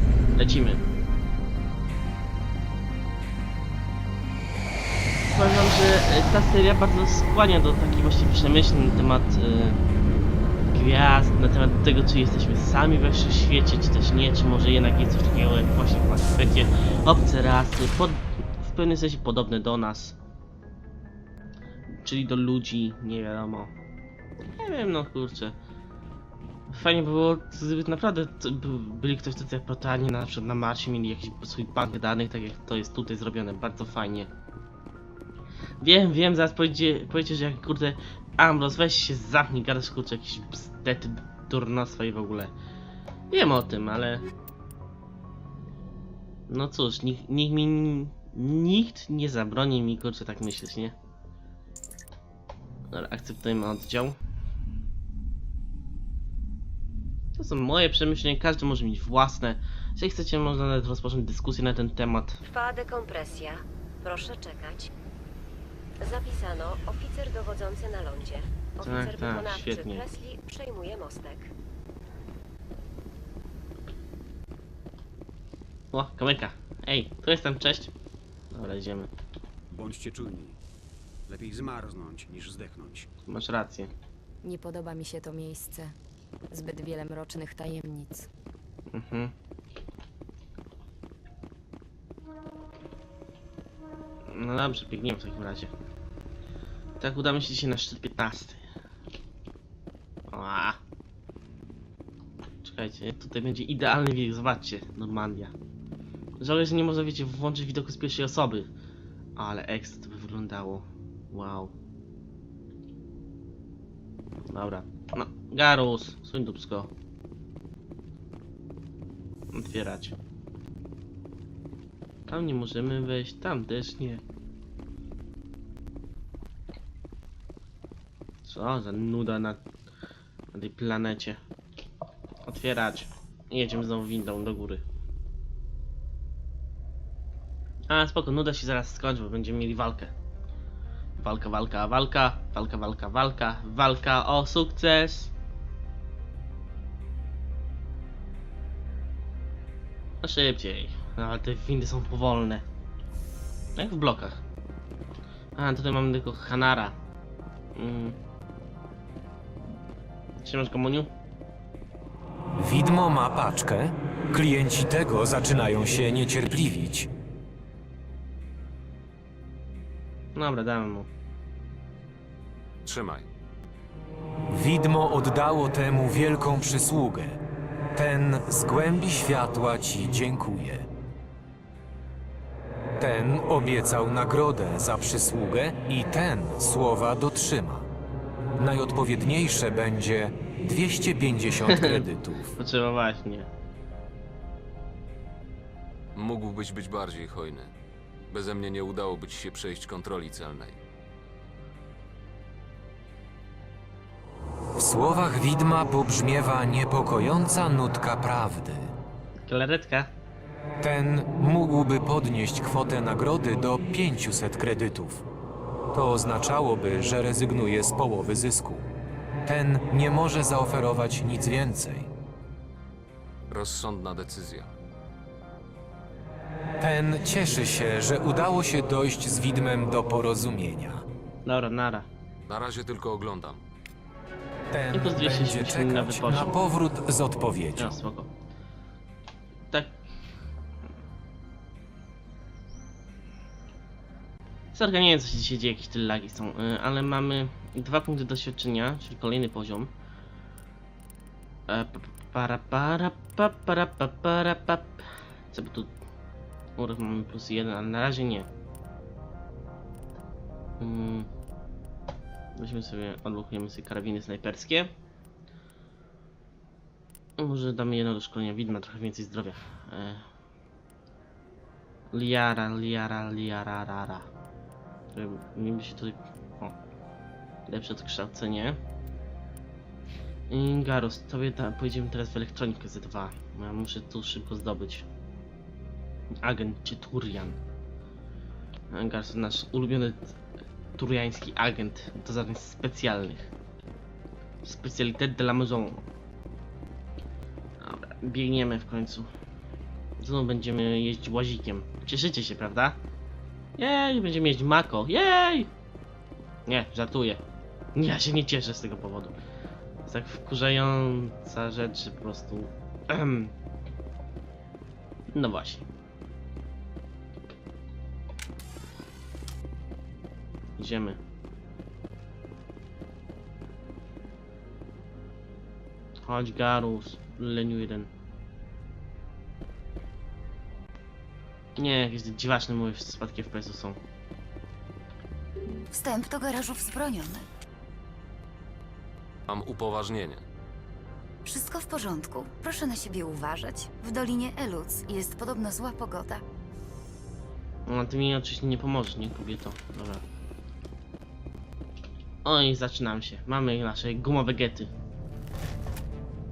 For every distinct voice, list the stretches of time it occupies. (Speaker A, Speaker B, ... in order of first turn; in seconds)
Speaker A: 0.3-0.9, 5.3-9.8, 10.7-20.2, 22.0-23.7, 24.6-25.6, 26.7-34.3, 35.8-42.5, 43.3-44.3, 46.5-51.0, 52.9-54.2, 57.4-62.4, 68.8-70.1, 75.9-77.9, 78.5-79.1, 83.3-83.9, 88.9-89.3, 94.3-95.7, 97.0-98.6, 100.3-100.8, 102.6-105.5, 106.4-108.7, 109.4-111.7, 114.5-116.9, 119.5-120.2, 122.3-124.2, 128.4-129.6, 130.5-131.4, 132.4-134.8, 137.9-140.1, 141.2-145.3, 150.2-152.7, 153.8-154.4, 155.6-157.0, 157.8-158.2, 160.4-161.1, 170.3-171.1, 191.7-192.1, 192.6-193.5, 209.5-210.1, 231.4-232.1, 234.9-236.7, 237.8-238.3, 239.7-240.0, 244.7-249.9, 251.7-255.9, 256.8-258.5, 260.8-261.3, 262.6-264.9, 267.4-270.2, 272.1-274.3, 275.1-276.7, 277.7-278.8, 280.5-285.1, 286.4-287.6, 288.9-290.4, 291.0-293.5, 294.6-296.1, 297.8-299.3, 300.2-303.0, 303.8-305.7, 306.7-307.4, 308.0-309.4, 310.1-313.5, 315.3-315.9, 320.8-321.2, 326.2-328.1, 331.8-334.0, 347.9-350.2, 352.4-354.9
Speaker B: 62.5-64.9, 66.0-71.5
Speaker C: 79.7-80.6, 81.3-83.1
Speaker D: 84.4-86.0, 86.5-88.3
Speaker E: 162.6-167.1, 174.5-177.4, 177.9-180.9, 183.0-187.9, 188.6-192.5, 204.8-208.9, 210.8-215.2, 215.9-218.9, 219.4-222.1, 226.8-231.1, 234.7-237.9
Speaker F: 172.8-173.3, 196.2-197.7, 198.3-200.8, 223.5-224.7, 232.5-233.6, 339.5-340.4
Speaker G: 335.9-337.5, 341.4-346.4